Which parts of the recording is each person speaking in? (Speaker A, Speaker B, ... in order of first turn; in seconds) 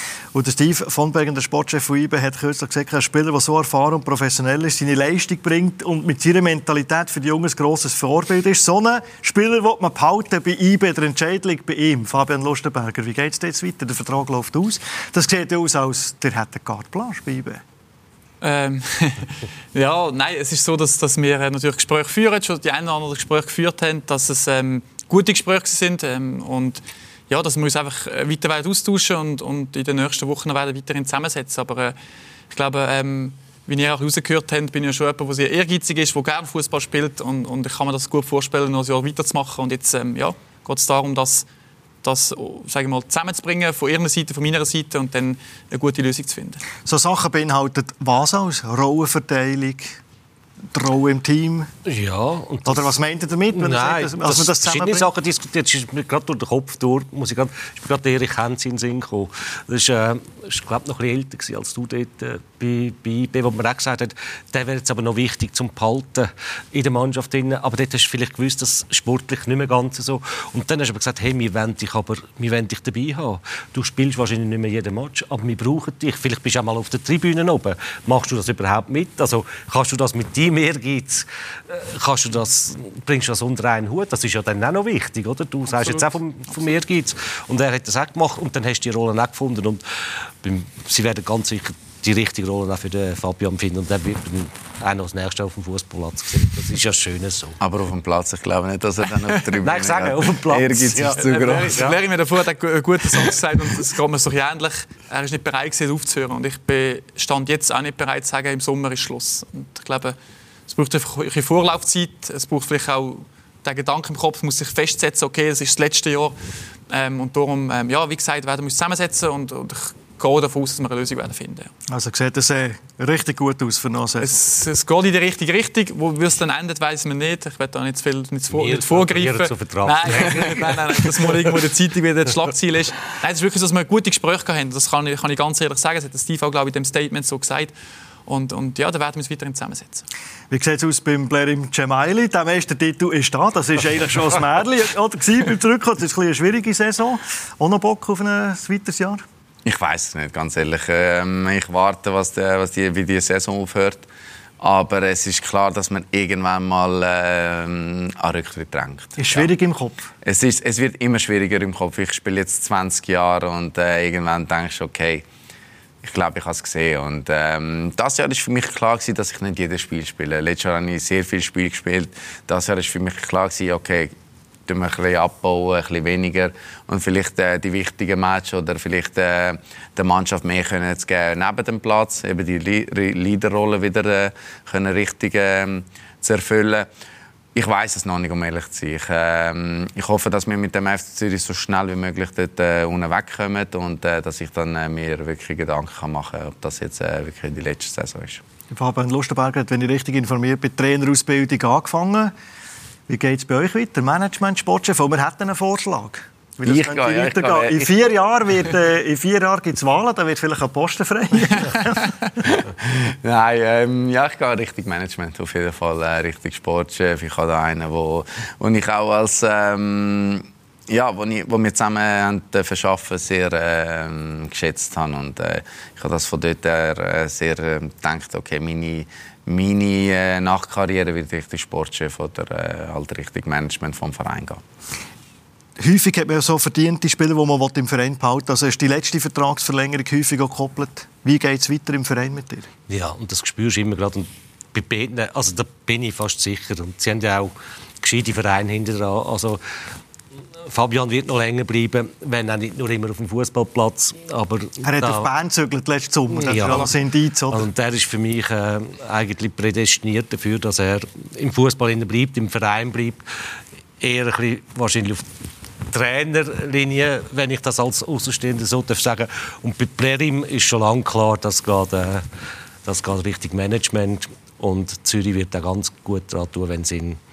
Speaker A: 0.3-17.6, 46.8-50.0, 50.7-51.7, 52.6-55.1, 121.9-124.3, 140.5-149.2, 159.2-160.1, 198.7-202.3, 203.1-212.6, 235.8-242.7, 254.8-257.7
Speaker B: 18.4-31.9, 32.5-41.5, 42.0-46.6, 85.7-86.8, 101.2-110.2, 110.7-116.3, 116.9-121.7, 124.2-137.7, 138.3-140.0
Speaker C: 51.9-52.9, 53.5-89.8, 90.4-97.6, 99.6-102.0, 128.5-130.8, 242.9-249.6, 250.7-255.3, 256.3-256.9, 257.5-263.3, 264.0-265.2, 265.9-272.2, 272.8-277.2
Speaker D: 97.6-101.9, 149.6-154.1, 154.6-159.5, 160.2-165.2, 166.0-174.1, 174.7-186.9, 187.5-198.4, 206.6-207.9, 212.4-234.6